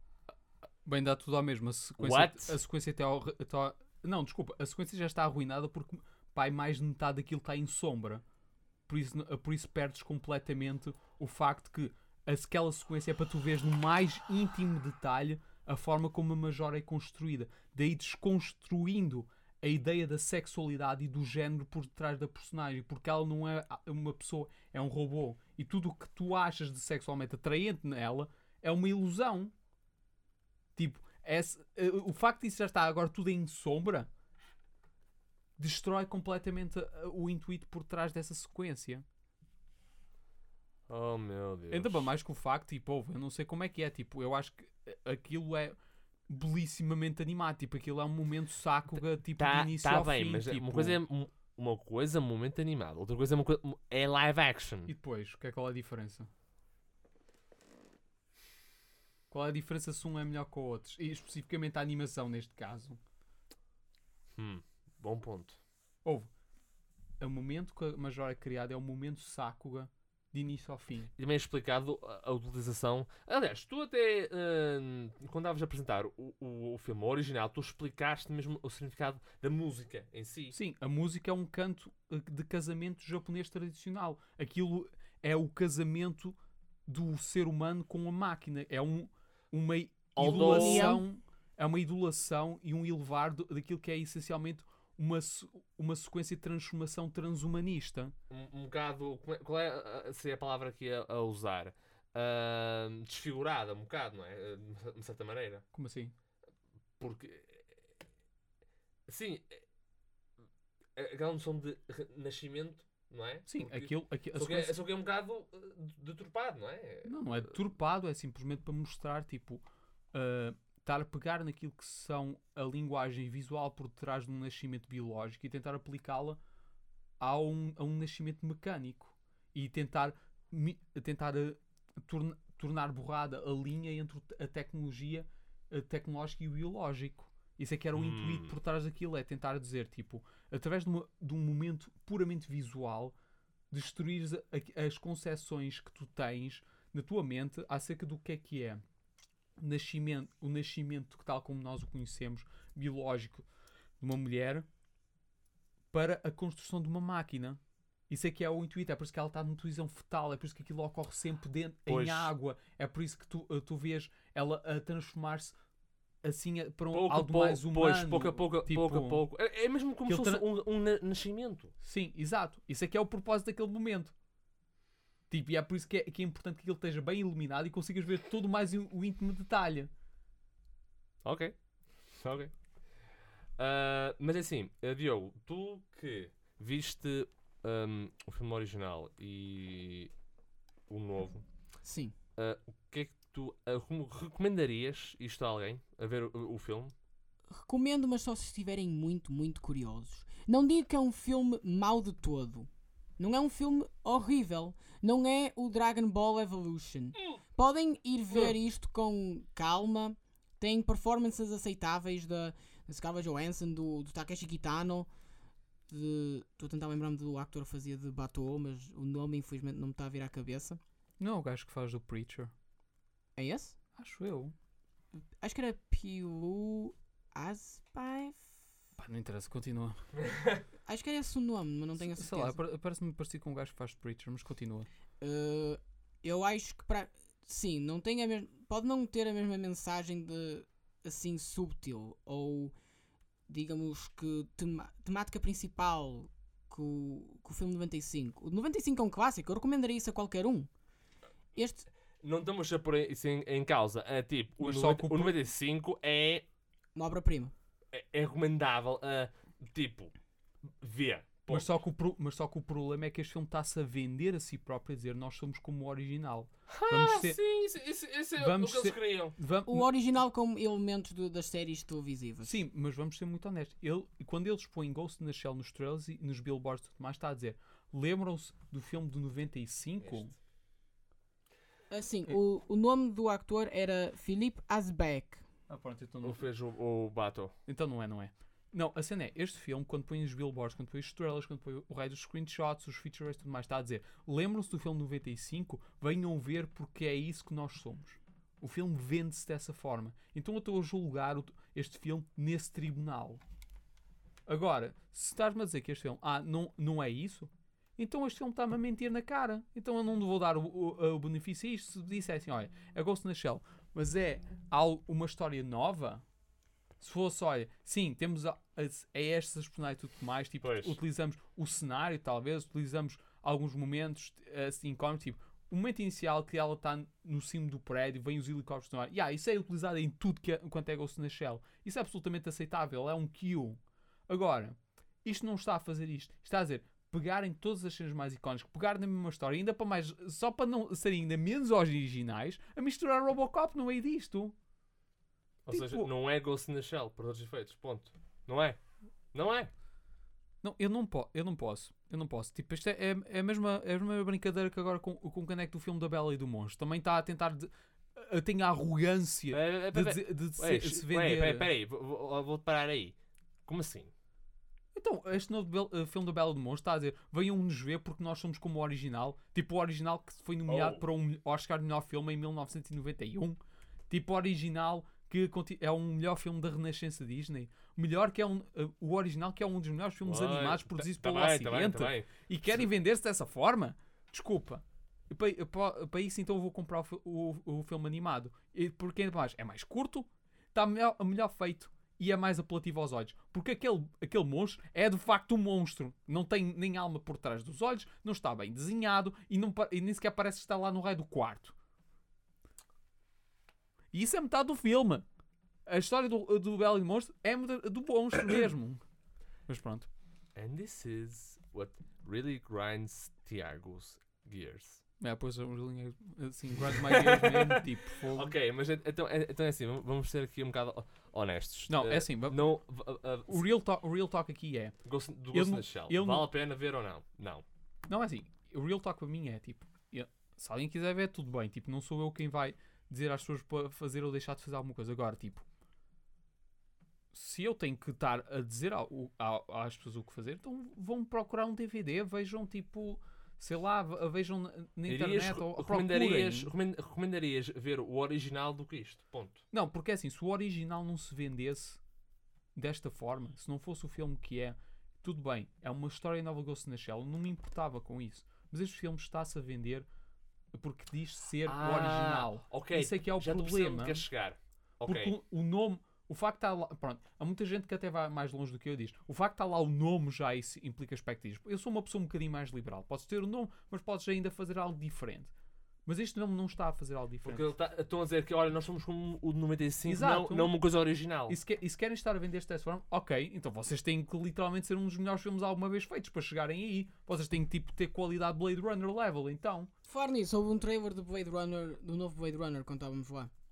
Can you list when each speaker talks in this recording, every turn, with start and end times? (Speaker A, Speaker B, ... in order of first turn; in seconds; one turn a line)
Speaker A: 0.8-8.2
Speaker B: 2.0-2.5
Speaker A: 8.9-29.5
Speaker A: 30.8-34.1
Speaker A: 35.6-39.0
Speaker B: 40.9-42.1
Speaker A: 41.7-45.8
Speaker A: 46.3-51.0
Speaker B: 49.4-54.9
Speaker A: 54.9-56.3
Speaker A: 59.3-63.0
Speaker B: 64.4-65.6
Speaker A: 66.0-66.3
Speaker A: 67.2-71.1
Speaker B: 71.2-80.5
Speaker A: 80.5-98.1
Speaker B: 90.1-91.0
Speaker C: 90.2-91.0
Speaker B: 98.3-105.6
Speaker A: 105.7-106.1
Speaker B: 107.0-107.7
Speaker B: 109.1-109.6
Speaker B: 111.0-117.4
Speaker A: 113.5-114.8
Speaker A: 117.0-126.4
Speaker A: 127.2-143.1
Speaker B: 137.9-138.5
Speaker A: 143.7-148.8
Speaker A: 149.6-153.4
Speaker A: 154.0-154.7
Speaker A: 155.9-165.6
Speaker B: 161.9-162.3
Speaker A: 166.2-169.3
Speaker B: 166.9-171.7
Speaker A: 170.1-170.4
Speaker A: 171.8-174.1
Speaker A: 175.3-179.9
Speaker B: 181.2-181.6
Speaker B: 182.1-182.5
Speaker B: 183.6-190.1
Speaker B: 190.9-191.4
Speaker C: 191.8-192.1
Speaker B: 192.4-196.9
Speaker C: 197.5-215.1
Speaker C: 215.9-220.8
Speaker A: 221.2-222.5
Speaker C: 223.4-223.8
Speaker A: 223.9-224.6
Speaker C: 225.4-228.5
Speaker A: 229.0-230.0
Speaker B: 230.2-230.6
Speaker C: 230.9-232.6
Speaker A: 232.0-234.9
Speaker C: 235.2-242.7
Speaker C: 243.5-250.7
Speaker C: 251.6-251.9
Speaker B: 252.2-256.4
Speaker A: 254.6-255.4
Speaker C: 256.9-257.5
Speaker B: 257.9-260.1
Speaker B: 260.8-261.7
Speaker A: 261.5-267.4
Speaker B: 266.7-269.3
Speaker A: 268.4-269.9
Speaker C: 269.7-272.6
Speaker A: 272.4-280.3
Speaker B: 280.0-280.3
Speaker C: 281.9-285.4
Speaker A: 285.7-286.4
Speaker B: 286.2-287.5
Speaker A: 287.7-303.4
Speaker A: 304.5-316.2
Speaker A: 317.0-344.6
Speaker B: 320.6-320.9
Speaker B: 345.7-348.8
Speaker A: 345.7-346.1
Speaker B: 349.3-349.7
Speaker A: 350.6-361.7
Speaker B: 359.5-364.1
Speaker A: 364.9-373.6
Speaker B: 370.7-371.0
Speaker A: 374.1-401.7
Speaker B: 380.2-382.3
Speaker A: 404.1-405.3
Speaker A: 405.9-409.0
Speaker A: 409.7-410.1
Speaker B: 410.6-415.0
Speaker A: 415.2-418.5
Speaker B: 417.0-423.7
Speaker A: 421.9-422.7
Speaker A: 423.5-424.9
Speaker B: 425.1-427.6
Speaker A: 425.5-426.5
Speaker A: 428.1-435.6
Speaker A: 437.3-446.7
Speaker B: 445.1-449.6
Speaker A: 449.7-452.0
Speaker A: 452.7-460.1
Speaker A: 460.7-464.2
Speaker B: 461.7-465.3
Speaker A: 465.1-475.5
Speaker A: 476.1-477.7
Speaker B: 477.4-481.6
Speaker A: 480.1-480.8
Speaker A: 481.5-489.9
Speaker C: 490.1-493.5